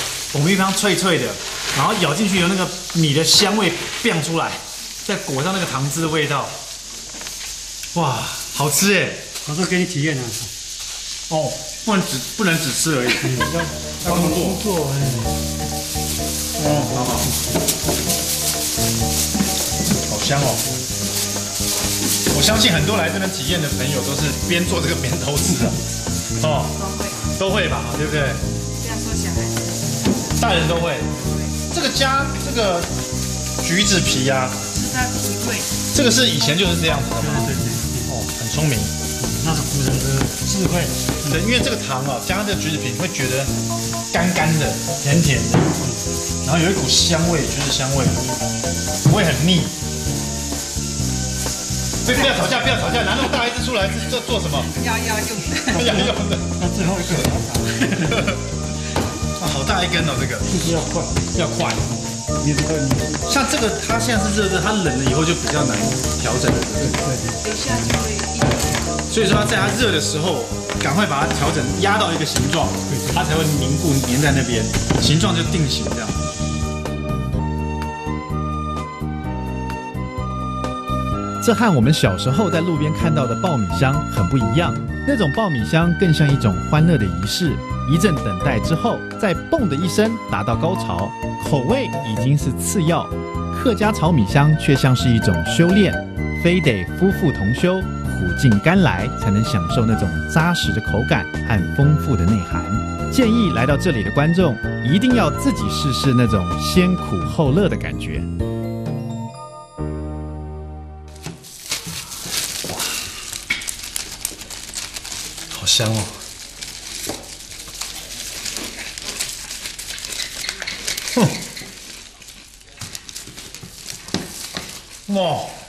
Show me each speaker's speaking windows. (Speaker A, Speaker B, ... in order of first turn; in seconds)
Speaker A: 0.3-6.5, 7.9-9.2, 11.3-13.4, 14.0-14.6, 16.6-17.3, 19.9-20.6, 22.3-25.8, 26.4-26.8, 27.3-28.4, 30.4-31.1, 31.6-32.9, 33.6-34.6, 35.9-38.9, 41.2-43.5, 44.1-45.8, 46.4-48.3, 49.1-49.7, 52.0-54.7, 55.7-58.4, 59.4-60.6, 61.4-61.9, 63.2-67.0, 69.1-76.2, 115.5-116.1, 125.1-125.5
Speaker B: 9.4-10.5, 13.1-15.4, 37.2-38.1, 39.2-41.5, 55.7-58.3, 60.5-61.8, 62.4-63.2, 66.8-67.4, 72.9-73.2
Speaker C: 26.7-27.2, 28.8-31.6, 34.7-35.7, 54.7-55.8, 67.4-68.9
Speaker D: 81.4-108.3